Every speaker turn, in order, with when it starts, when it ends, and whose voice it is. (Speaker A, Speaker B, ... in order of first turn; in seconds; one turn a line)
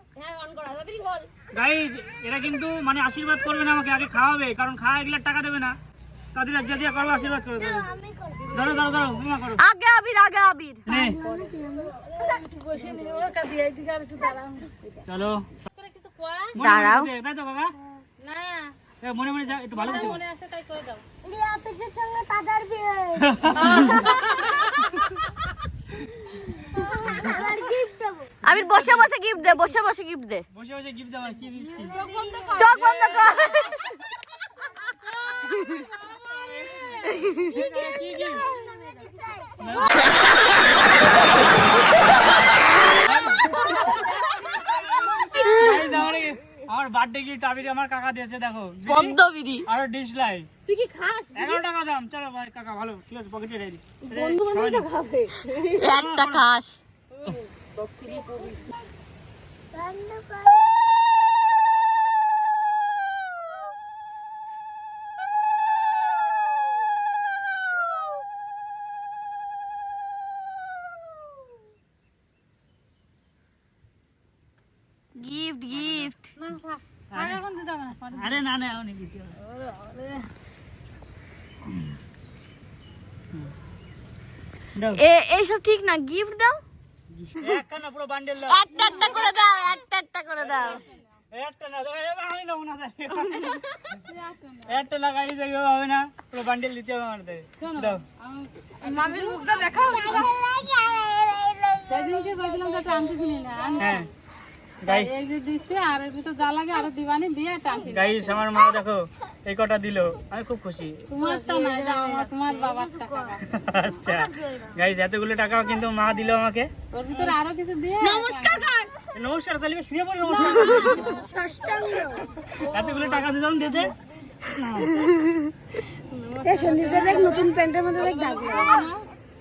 Speaker A: 0.2-1.3
Speaker B: 1.5-5.8
Speaker B: 6.3-7.9
Speaker C: 7.6-9.0
Speaker B: 8.5-9.6
Speaker D: 9.6-10.9
Speaker B: 10.9-11.2
Speaker E: 10.9-14.7
Speaker C: 11.1-11.9
Speaker B: 15.1-15.5
Speaker E: 15.8-16.6
Speaker B: 16.6-17.7
Speaker D: 16.6-17.1
Speaker E: 18.2-18.7
Speaker B: 19.0-20.2
Speaker E: 19.7-21.0
Speaker C: 21.2-23.4
Speaker B: 23.2-24.0
Speaker E: 23.5-24.6
Speaker C: 27.1-28.3
Speaker D: 28.4-30.4
Speaker B: 28.4-29.1
Speaker B: 30.5-32.0
Speaker A: 31.8-33.6
Speaker D: 32.5-33.7
Speaker B: 32.7-33.4
Speaker E: 36.8-37.2
Speaker B: 37.3-38.5
Speaker C: 38.4-39.5
Speaker B: 39.6-40.0
Speaker B: 43.0-43.6
Speaker A: 43.1-46.0
Speaker B: 44.9-50.5
Speaker D: 45.3-45.9
Speaker D: 48.9-49.7
Speaker A: 50.7-51.6
Speaker B: 51.4-54.9
Speaker A: 54.1-55.9
Speaker D: 55.8-56.8
Speaker B: 55.9-56.5
Speaker A: 57.1-58.8
Speaker C: 59.8-60.6
Speaker D: 75.2-76.3
Speaker B: 75.7-76.1
Speaker E: 76.3-78.4
Speaker B: 77.1-77.4
Speaker B: 78.2-79.3
Speaker E: 79.4-80.2
Speaker B: 84.8-85.0
Speaker D: 85.0-86.6
Speaker B: 87.2-88.9
Speaker D: 88.5-90.8
Speaker E: 88.7-89.4
Speaker E: 90.7-90.9
Speaker B: 91.3-93.6
Speaker E: 93.9-94.8
Speaker B: 94.7-98.0
Speaker E: 97.6-100.3
Speaker A: 98.8-100.2
Speaker D: 99.3-100.3
Speaker C: 100.2-101.8
Speaker E: 101.9-104.1
Speaker B: 103.8-104.1
Speaker B: 104.8-105.1
Speaker E: 104.8-108.3
Speaker B: 107.9-111.0
Speaker E: 111.1-113.4
Speaker A: 111.2-113.2
Speaker B: 113.5-116.7
Speaker E: 116.9-118.7
Speaker A: 118.0-118.9
Speaker B: 119.2-121.1
Speaker E: 120.3-121.3
Speaker A: 120.4-122.0
Speaker C: 121.3-122.2
Speaker B: 122.6-123.9
Speaker B: 124.5-124.9
Speaker E: 126.1-129.1
Speaker A: 126.5-128.8